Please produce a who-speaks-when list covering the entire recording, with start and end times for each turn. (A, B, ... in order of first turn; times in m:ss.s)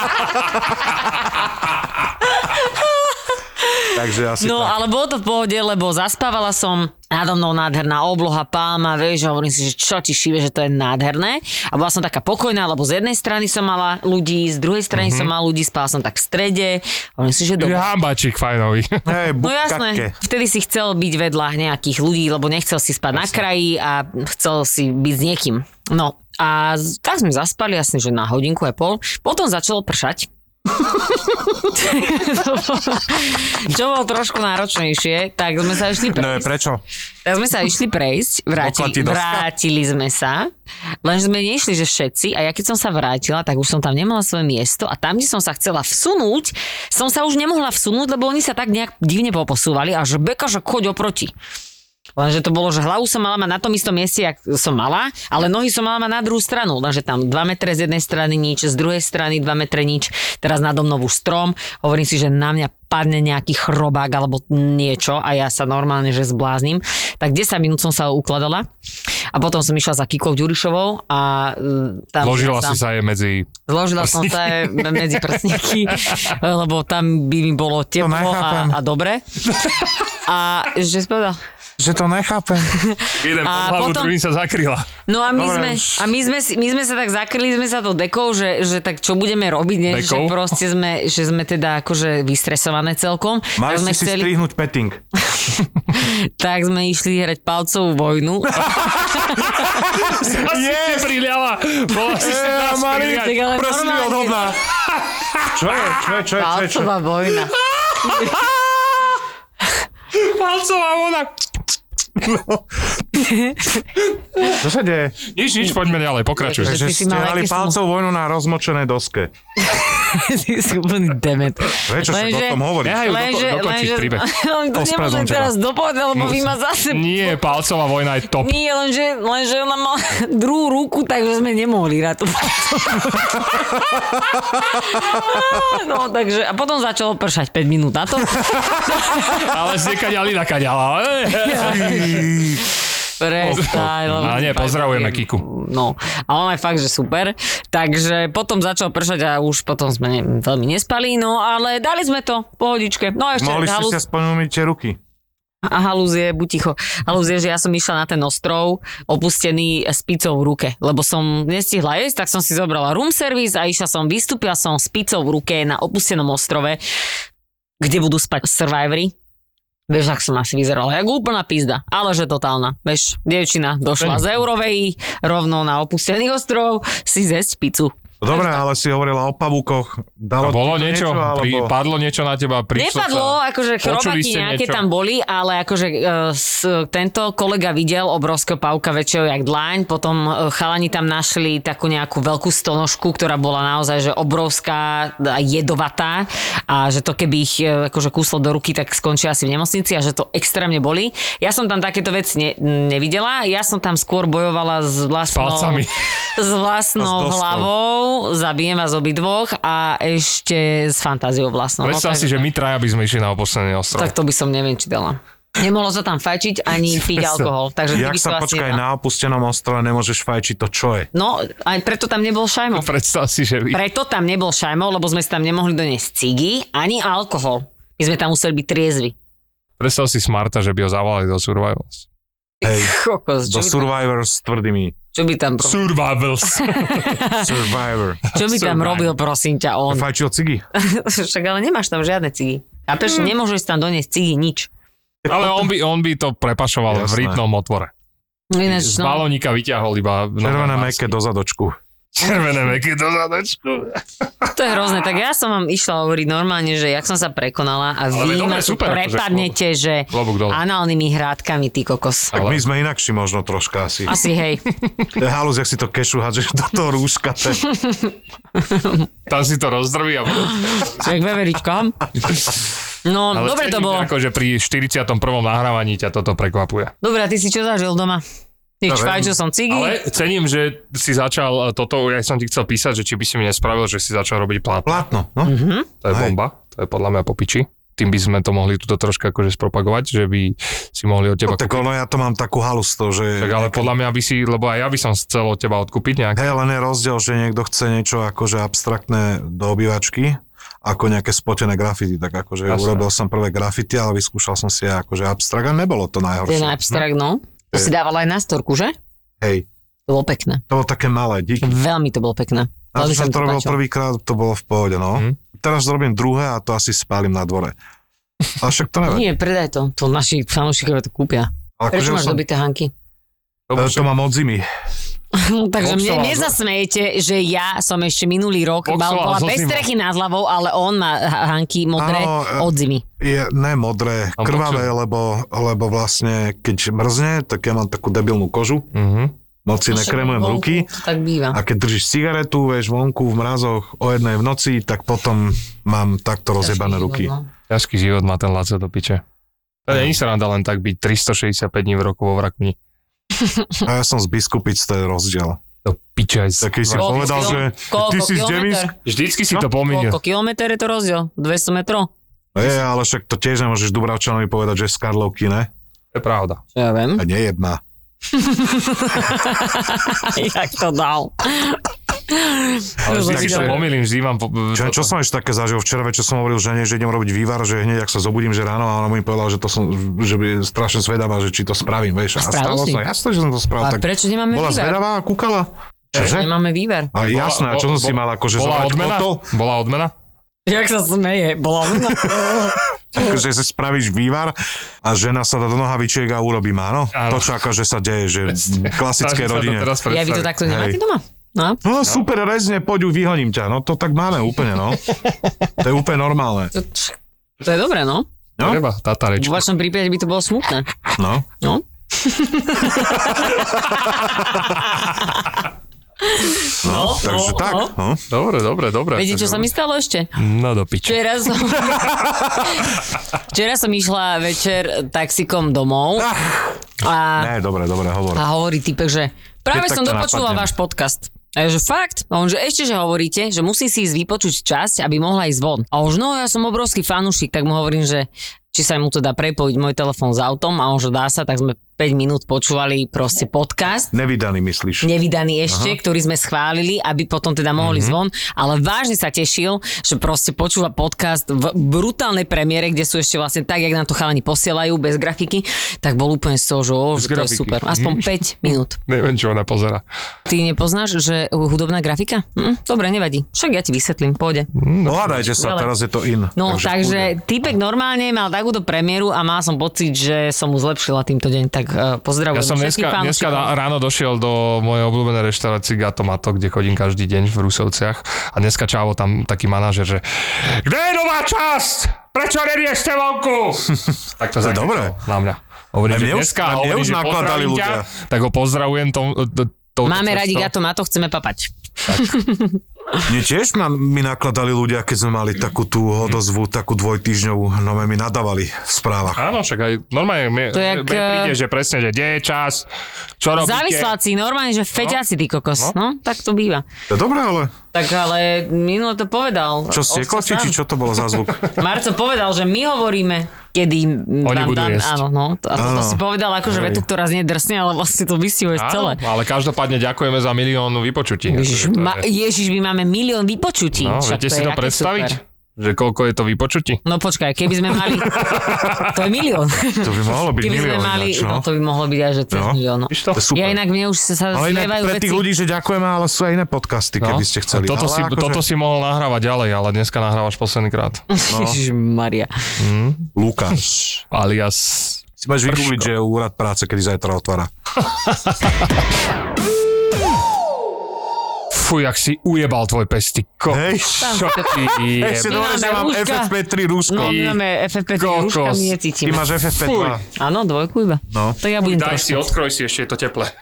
0:02.4-0:17.9 A
0:03.9-0:04.8 B
0:14.9-0:15.3 C
0:17.6-0:19.0 C
0:19.0-0:20.1 B
0:19.4-0:30.3 A
0:31.2-0:36.5 A
0:36.1-0:36.8 B
0:37.2-0:40.5 A
0:38.6-0:39.5 B
0:41.0-0:51.3 A
0:52.2-1:08.7 A
1:09.3-1:12.8 A
1:12.2-1:16.3 C
1:13.7-1:19.2 A
1:18.0-1:18.8 B
1:20.2-1:21.4 A
1:21.8-1:22.7 B
1:22.7-1:24.1 A
1:23.1-1:24.9 C
1:25.1-1:34.3 A
1:25.3-1:26.0 B
1:29.9-1:30.5 C
1:33.6-1:35.0 B
1:35.3-1:40.2 A
1:38.6-1:41.1 B
1:39.6-1:43.5 C
1:42.1-1:44.6 B
1:42.9-1:44.5 A
1:44.9-1:45.5 C
1:45.5-1:46.9 B
1:46.3-1:48.4 A
1:47.7-1:48.5 C
1:50.1-1:51.3 C
1:52.2-1:52.6 B
1:53.1-1:53.8 A
1:54.5-1:55.2 B
1:55.3-1:56.8 C
1:56.4-1:57.8 A
1:56.6-1:59.3 B
1:59.6-2:07.4 A
2:01.8-2:03.1 B
2:02.8-2:04.2 C
2:04.7-2:05.5 B
2:06.2-2:08.5 C
2:08.4-2:13.8 A
2:14.4-2:19.5 A
2:19.3-2:22.3 C
2:21.4-2:22.4 A
2:21.6-2:22.6 B
2:23.2-2:34.0 A
2:23.4-2:24.3 B
2:23.5-2:25.4 C
2:33.4-2:35.0 B
2:35.6-2:46.8 A
2:47.8-2:49.1 A
2:49.9-2:58.6 A
2:54.0-2:54.2 C
2:58.2-3:01.7 B
3:00.4-3:04.8 C
3:02.7-3:32.4 A
3:25.3-3:25.9 C
3:27.0-3:27.7 B
3:31.8-3:34.1 C
3:33.9-3:38.8 A
3:37.9-3:41.1 B
3:41.1-3:42.9 A
3:42.7-3:43.8 C
3:43.7-3:49.1 A
3:49.8-3:52.0 C
3:52.6-3:53.9 A
3:52.6-3:52.9 B
3:53.4-3:55.0 B
3:55.1-3:55.8 A
3:55.6-3:57.2 C
3:56.5-3:57.5 A
3:57.4-3:58.2 B
3:58.3-4:00.0 A
3:58.3-3:59.1 C
3:59.9-4:00.6 B
4:00.7-4:04.7 A
4:05.2-4:05.5 B
4:05.3-4:07.9 C
4:06.9-4:07.4 B
4:08.5-4:09.2 A
4:08.6-4:11.1 C
4:10.4-4:11.8 B
4:12.1-4:14.0 C
4:14.5-4:22.3 A
4:18.1-4:19.6 C
4:20.1-4:20.6 C
4:22.3-4:22.6 C
4:22.3-4:24.1 B
4:24.1-4:24.6 A
4:25.2-4:27.6 B
4:27.6-4:29.1 A
4:29.3-4:31.0 C
4:30.7-4:32.0 A
4:33.0-4:34.1 A
4:33.3-4:36.9 C
4:37.0-4:38.2 A
4:38.8-4:40.0 A
4:38.9-4:39.3 B
4:39.7-4:45.0 C
4:44.8-4:45.5 B
4:45.4-4:45.9 A
4:46.0-4:51.8 C
4:46.1-4:46.3 B
4:51.4-4:53.9 B
4:53.4-4:56.4 C
4:56.3-5:07.0 B
5:02.7-5:03.0 C
5:06.5-5:08.9 A
5:09.4-5:09.6 B
5:10.1-5:10.6 A
5:10.7-5:11.8 B
5:11.6-5:13.8 A
5:12.9-5:17.8 B
5:18.6-5:19.2 B
5:19.0-5:22.9 A
5:21.8-5:22.4 B
5:23.7-5:24.0 C
5:23.7-5:24.7 B
5:25.3-5:33.0 A
5:25.8-5:26.5 C
5:28.9-5:29.9 C
5:32.0-5:38.9 B
5:34.4-5:34.9 C
5:38.9-5:39.3 C
5:39.6-5:40.9 B
5:39.9-5:41.6 A
5:41.5-5:47.3 B
5:46.6-5:47.5 A
5:47.7-5:49.2 C
5:49.9-5:52.8 C
5:53.8-5:55.6 B
5:55.8-5:57.7 C
5:56.6-5:58.9 B
5:57.0-5:58.9 A
5:59.0-6:00.2 C
5:59.8-6:02.1 A
6:02.5-6:05.7 B
6:06.1-6:06.6 C
6:06.8-6:07.2 A
6:07.2-6:07.8 B
6:08.3-6:13.8 A
6:13.0-6:13.8 B
6:13.0-6:15.1 C
6:14.7-6:26.5 B
6:22.4-6:23.0 A
6:23.8-6:25.0 A
6:26.1-6:27.1 A
6:27.1-6:29.4 B
6:27.2-6:30.1 C
6:30.7-6:32.8 A
6:32.2-6:39.9 B
6:37.1-6:37.5 C
6:38.6-6:40.5 C
6:40.1-6:41.8 A
6:40.6-6:41.0 B
6:41.8-6:45.0 B
6:45.8-6:46.7 B
6:46.7-6:48.3 A
6:48.6-6:49.6 C
6:49.4-6:50.9 A
6:51.2-6:51.4 B
6:51.6-6:55.6 A
6:56.2-6:57.9 A
6:56.8-6:58.2 B
6:58.3-6:59.7 C
6:59.1-7:00.3 A
7:00.4-7:01.2 C
7:01.0-7:02.1 A
7:02.1-7:02.4 B
7:02.6-7:03.0 A
7:03.5-7:06.3 A
7:06.2-7:06.8 B
7:07.0-7:07.5 A
7:07.4-7:08.4 B
7:08.3-7:24.1 A
7:09.7-7:10.7 B
7:24.1-7:25.1 B
7:25.0-7:39.0 A
7:25.7-7:26.0 B
7:27.8-7:28.2 C
7:37.2-7:38.3 C
7:39.0-7:40.0 C
7:40.4-7:44.7 A
7:44.7-7:45.5 C
7:45.0-7:47.3 B
7:45.5-7:45.9 A
7:46.5-7:53.7 A
7:52.5-8:10.7 C
8:04.6-8:05.2 B
8:06.1-8:08.0 B
8:10.0-8:13.2 A
8:13.2-8:19.4 B
8:19.3-8:22.9 C
8:20.7-8:21.5 A
8:23.4-8:24.1 C
8:23.6-8:26.8 A
8:27.1-8:27.7 B
8:27.9-8:30.8 A
8:29.9-8:31.6 B
8:31.7-8:39.2 A
8:34.4-8:35.2 C
8:35.7-8:36.2 B
8:38.8-8:42.2 C
8:41.5-8:45.4 A
8:44.0-8:47.0 C
8:47.0-8:55.4 A
8:48.3-8:49.1 C
8:50.0-8:51.7 B
8:52.5-8:52.8 B
8:53.1-8:53.4 C
8:53.3-8:53.8 B
8:54.5-8:58.6 B
8:57.2-9:01.2 C
9:01.3-9:02.5 A
9:01.5-9:01.8 B
9:02.8-9:03.3 C
9:03.3-9:04.2 B
9:04.3-9:06.1 C
9:05.4-9:07.7 B
9:08.2-9:08.7 C
9:11.7-9:15.6 C
9:13.7-9:14.6 B
9:14.2-9:16.5 A
9:15.1-9:17.4 B
9:17.0-9:19.4 A
9:17.2-9:17.6 C
9:18.1-9:18.9 C
9:19.2-9:20.2 B
9:19.8-9:20.2 C
9:20.3-9:22.5 A
9:21.3-9:21.6 B
9:21.8-9:23.5 C